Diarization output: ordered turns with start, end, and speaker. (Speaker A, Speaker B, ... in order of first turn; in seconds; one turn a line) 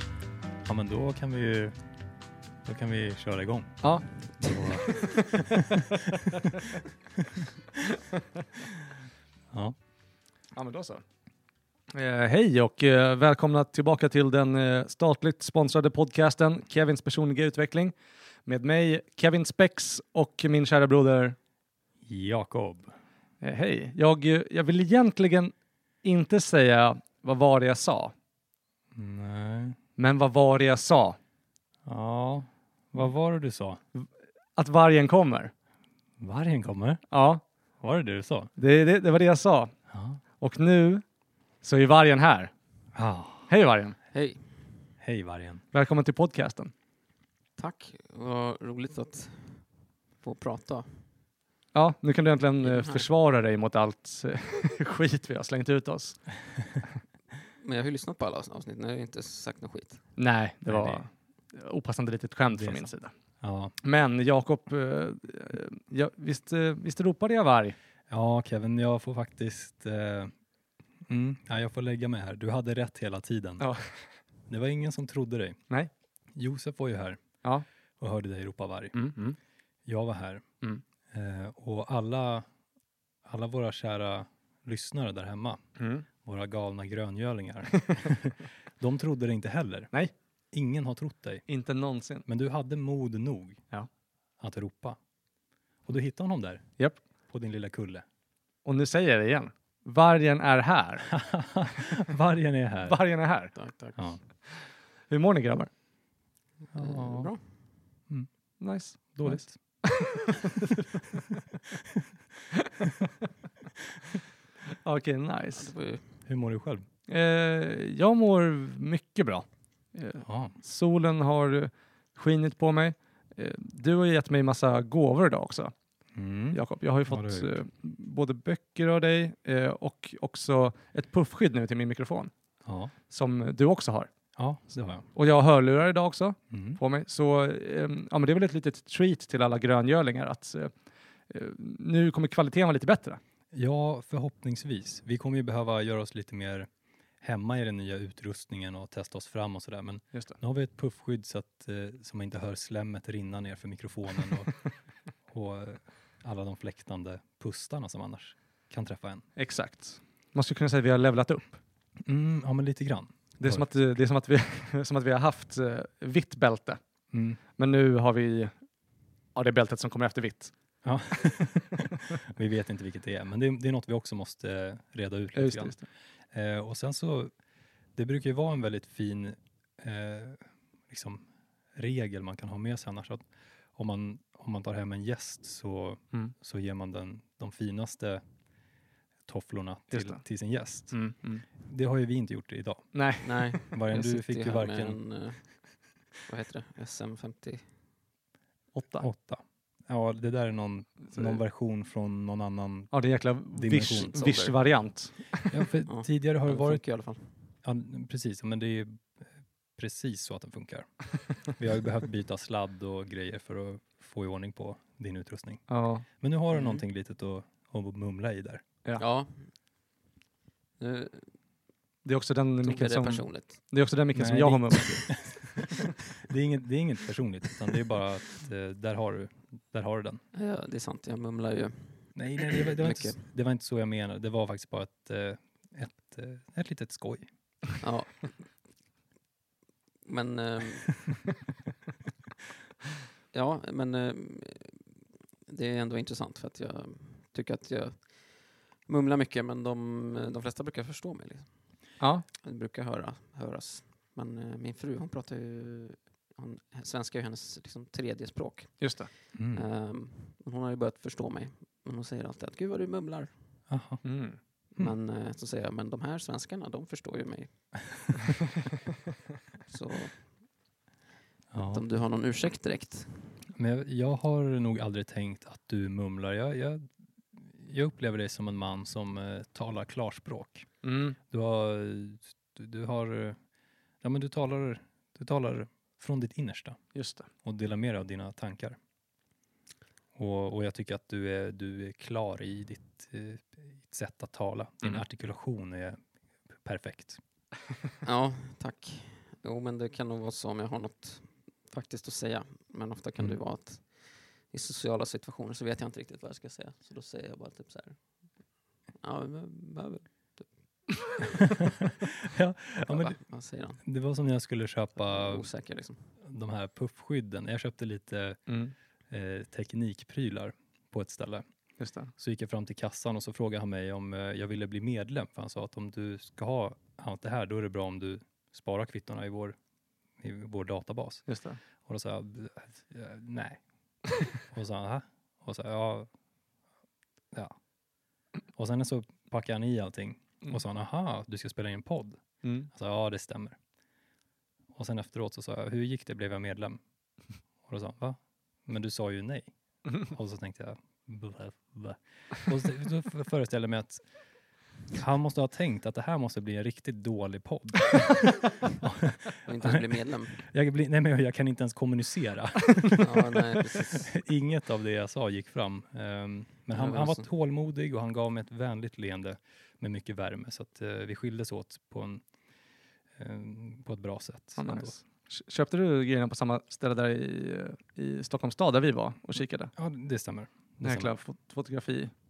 Speaker A: 0.6-1.8
Speaker A: 2.6-5.5
Speaker B: 4.4-4.7
Speaker C: 10.5-11.0
Speaker C: 11.9-17.9
Speaker C: 18.4-21.4
Speaker A: 22.0-22.9
Speaker C: 23.4-28.1
Speaker A: 28.9-29.8
Speaker C: 30.0-31.2
Speaker A: 31.8-33.8
Speaker C: 33.9-35.5
Speaker A: 36.2-37.0
Speaker C: 37.1-37.4
Speaker A: 37.8-38.5
Speaker C: 38.6-39.8
Speaker A: 39.9-40.2
Speaker C: 40.4-41.0
Speaker C: 41.6-42.5
Speaker A: 42.9-43.5
Speaker C: 43.5-44.0
Speaker B: 44.1-44.7
Speaker A: 45.0-45.6
Speaker C: 45.7-46.7
Speaker B: 47.6-51.1
Speaker C: 51.7-56.4
Speaker B: 52.6-53.1
Speaker B: 57.6-60.1
Speaker C: 60.1-63.1
Speaker A: 60.6-61.0
Speaker A: 62.5-63.7
Speaker C: 63.8-67.8
Speaker A: 68.1-70.3
Speaker A: 71.0-73.7
Speaker C: 73.6-74.1
Speaker A: 74.5-75.6
Speaker A: 76.3-77.3
Speaker A: 78.0-79.2
Speaker C: 78.9-79.4
Speaker A: 79.8-80.4
Speaker A: 81.1-82.5
Speaker A: 83.2-85.6
Speaker C: 85.8-86.0
Speaker A: 86.2-89.9
Speaker A: 90.5-91.4
Speaker C: 91.5-92.2
Speaker A: 92.2-93.6
Speaker A: 94.4-95.0
Speaker A: 95.8-98.0
Speaker C: 98.6-101.2
Speaker A: 101.1-103.0
Speaker C: 102.8-103.6
Speaker B: 103.5-104.1
Speaker A: 104.0-104.2
Speaker C: 104.4-105.7
Speaker B: 106.7-107.4
Speaker A: 106.7-107.3
Speaker C: 108.6-110.8
Speaker A: 109.0-109.8
Speaker C: 114.8-115.7
Speaker B: 115.5-116.1
Speaker A: 116.2-116.8
Speaker C: 117.1-125.7
Speaker A: 120.2-120.5
Speaker A: 126.1-127.5
Speaker C: 126.5-132.3
Speaker A: 132.6-132.9
Speaker C: 133.1-134.1
Speaker A: 134.3-135.0
Speaker C: 135.1-140.7
Speaker A: 136.5-136.8
Speaker C: 141.3-143.2
Speaker A: 143.5-146.7
Speaker A: 147.2-154.5
Speaker A: 155.3-159.3
Speaker C: 159.3-161.6
Speaker A: 162.0-163.7
Speaker C: 163.4-166.8
Speaker A: 167.1-167.4
Speaker C: 167.6-168.5
Speaker C: 169.3-170.5
Speaker A: 170.8-175.8
Speaker C: 175.3-175.8
Speaker A: 176.3-177.3
Speaker A: 177.9-188.2
Speaker A: 189.3-193.0
Speaker C: 189.9-190.2
Speaker C: 190.9-191.4
Speaker C: 192.9-193.5
Speaker B: 193.2-197.8
Speaker A: 193.5-195.0
Speaker C: 198.7-199.1
Speaker A: 199.0-202.9
Speaker C: 201.1-201.4
Speaker C: 202.9-205.6
Speaker A: 203.5-204.2
Speaker B: 203.9-204.6
Speaker A: 205.5-206.8
Speaker B: 205.8-207.4
Speaker A: 207.6-218.6
Speaker C: 215.7-216.1
Speaker B: 216.5-216.8
Speaker B: 219.0-219.5
Speaker B: 220.8-221.3
Speaker C: 222.0-225.4
Speaker B: 222.6-223.6
Speaker A: 224.1-225.4
Speaker A: 226.2-230.2
Speaker B: 230.3-233.3
Speaker A: 232.1-237.3
Speaker B: 237.8-238.6
Speaker B: 240.0-241.1
Speaker B: 243.3-244.9
Speaker B: 245.5-263.4
Speaker C: 252.0-252.2
Speaker C: 258.8-259.1
Speaker A: 259.3-259.6
Speaker A: 263.7-264.0
Speaker C: 264.0-264.4
Speaker B: 264.7-267.7
Speaker B: 269.6-270.4
Speaker A: 271.5-271.8
Speaker B: 271.6-273.4
Speaker A: 273.5-280.7
Speaker C: 280.8-281.2
Speaker A: 281.3-283.4
Speaker A: 284.0-286.8
Speaker C: 286.9-287.3
Speaker A: 287.4-288.8
Speaker A: 290.1-296.0
Speaker A: 296.6-297.2
Speaker B: 298.0-310.5
Speaker A: 312.2-313.2
Speaker B: 312.7-313.8
Speaker A: 313.8-315.4
Speaker B: 315.0-316.1
Speaker A: 316.2-318.4
Speaker C: 318.5-318.7
Speaker A: 319.1-321.4
Speaker C: 321.8-322.1
Speaker A: 322.2-329.6
Speaker A: 330.2-331.3
Speaker C: 331.3-331.6
Speaker A: 331.8-333.6
Speaker A: 334.3-336.1
Speaker A: 338.5-343.6
Speaker C: 342.4-342.7
Speaker A: 344.7-346.8
Speaker A: 347.6-354.0
Speaker A: 354.9-372.2
Speaker B: 359.4-360.4
Speaker B: 363.0-364.1
Speaker B: 366.7-367.3
Speaker A: 373.2-374.9
Speaker C: 374.6-379.7
Speaker A: 379.7-381.1
Speaker C: 380.8-382.1